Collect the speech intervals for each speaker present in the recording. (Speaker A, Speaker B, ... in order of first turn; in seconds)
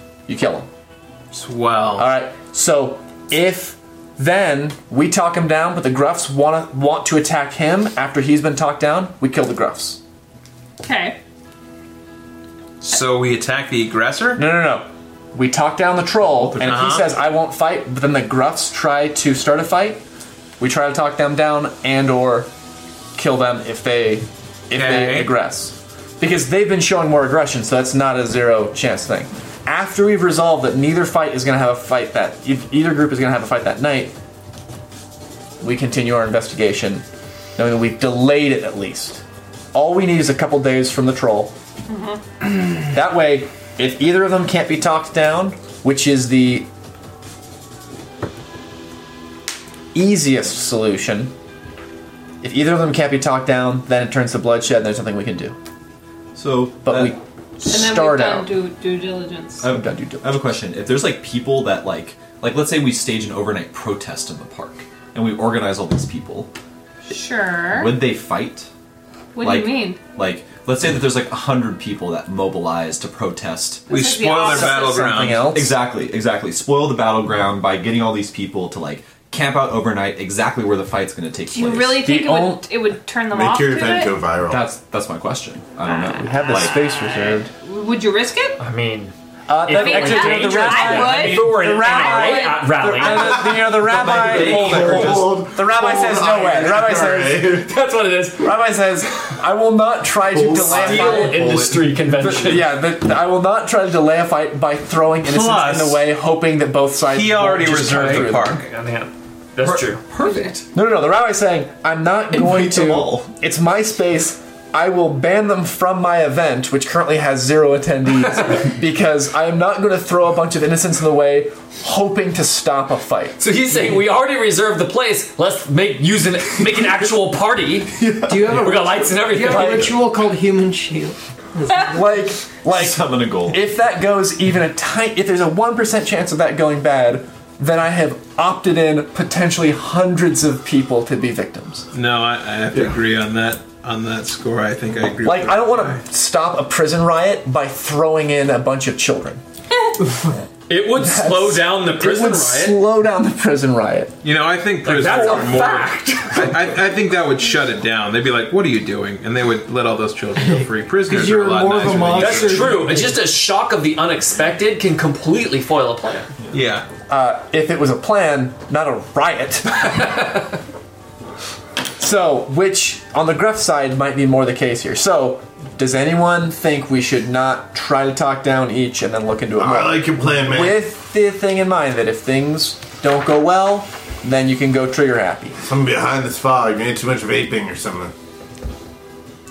Speaker A: 0.3-0.7, 2.0-10.0, 14.4-20.0, 20.6-22.5, 23.1-34.1, 35.6-37.0, 37.6-41.5, 42.8-46.7, 49.9-51.3, 52.4-55.6, 56.8-58.5, 59.6-60.5, 74.3-75.8, 82.0-82.7, 86.2-87.5, 89.5-97.7, 98.4-101.5, 102.2-108.5, 110.7-123.4, 128.0-128.5, 129.5-129.9, 131.9-141.9, 145.2-149.4, 150.9-154.2, 155.1-155.6, 167.1-170.2, 172.0-185.6
Speaker B: 1.3-2.1, 12.8-14.4, 16.6-17.1, 24.7-25.3, 73.9-75.5, 105.2-106.0, 107.0-108.6, 141.9-146.0, 154.2-162.8, 166.5-166.9
Speaker C: 10.8-11.2, 41.9-42.2, 57.6-59.6, 67.1-68.0, 69.3-70.0, 73.9-75.2, 81.5-84.2, 85.8-88.6, 89.7-93.3, 110.2-110.5
Speaker D: 16.4-16.8, 56.4-57.2, 59.6-66.5, 67.7-68.7, 69.4-73.9, 75.2-82.1, 84.5-86.8, 93.7-95.5, 100.7-102.4, 109.6-110.7, 112.3-113.3, 132.7-133.7
Speaker E: 83.3-84.7, 93.3-97.7, 100.3-102.0, 179.6-180.9, 185.6-188.1
Speaker F: 88.6-89.1, 89.7-93.6, 94.2-95.2, 97.7-98.5, 100.5-102.7, 107.9-110.1, 123.4-130.0, 150.7-152.8, 154.8-156.5, 162.1-166.3
Speaker G: 128.3-132.3, 160.4-163.2